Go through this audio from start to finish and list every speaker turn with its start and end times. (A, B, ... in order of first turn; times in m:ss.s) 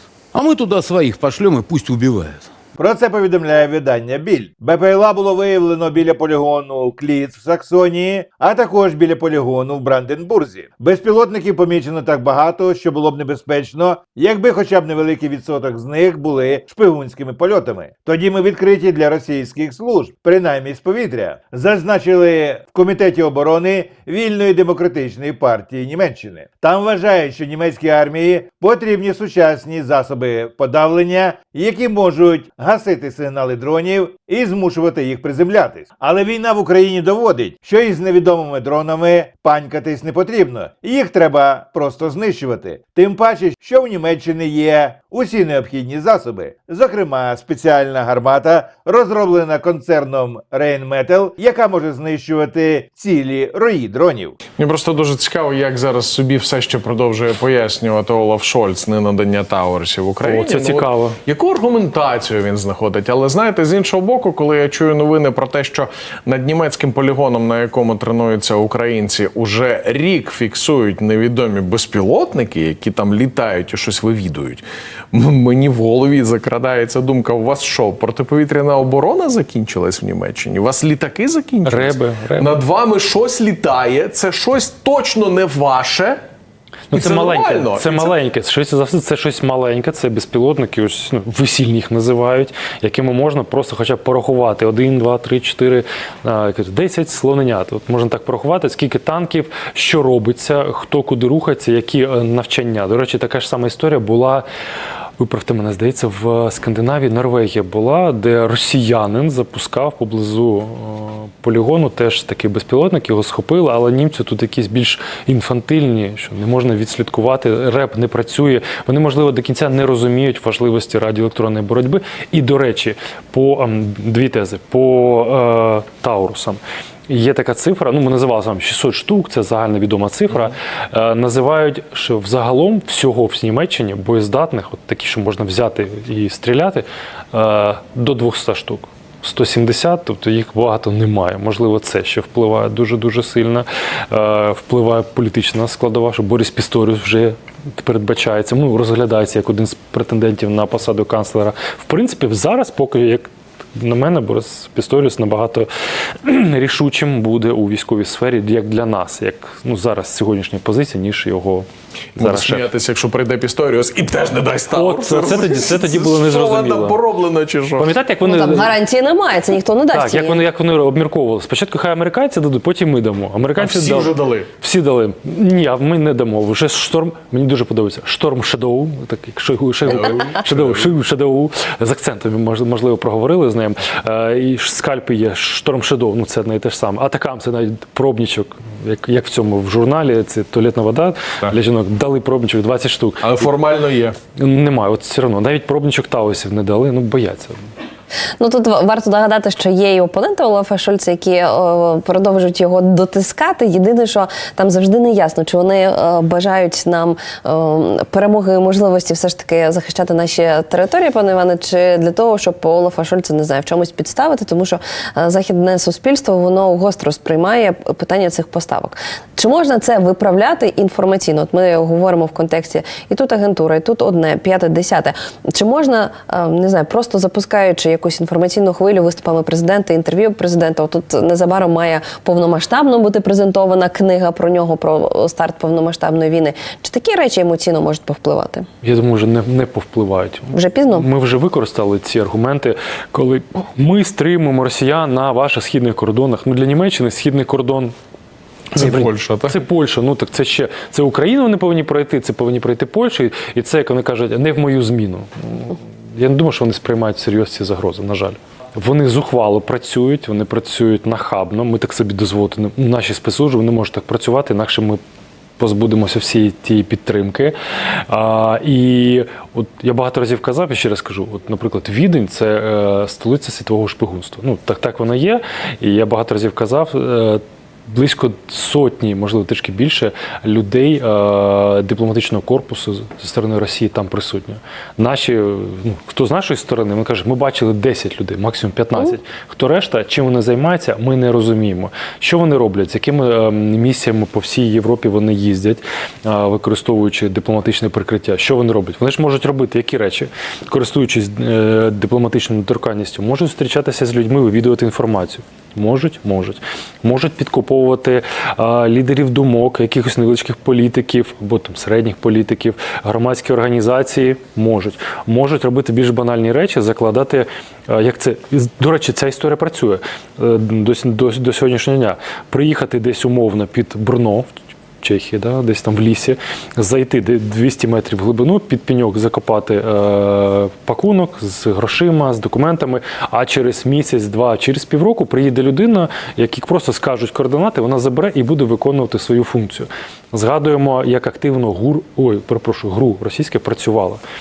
0:00.3-0:02.4 A
0:02.8-0:54.4 B
0:54.6-1:26.2 C
1:00.2-1:01.2 D
1:21.6-1:22.5 D
1:26.9-1:44.5 D
1:26.9-1:28.2 C
1:45.2-2:35.7 D
2:36.2-2:42.7 D
2:42.2-2:48.0 C
2:44.7-2:47.0 D
2:47.8-2:48.8 D
2:48.2-2:50.4 E
2:49.9-3:13.5 D
2:53.6-2:54.5 C
2:59.8-3:00.9 C
3:13.2-3:14.2 C
3:14.4-3:17.6 D
3:18.4-3:58.7 E
3:58.8-4:07.9 D
4:00.5-4:01.1 E
4:08.7-4:25.0 D
4:08.8-4:09.6 C
4:25.6-5:24.5 D
5:25.0-5:44.2 D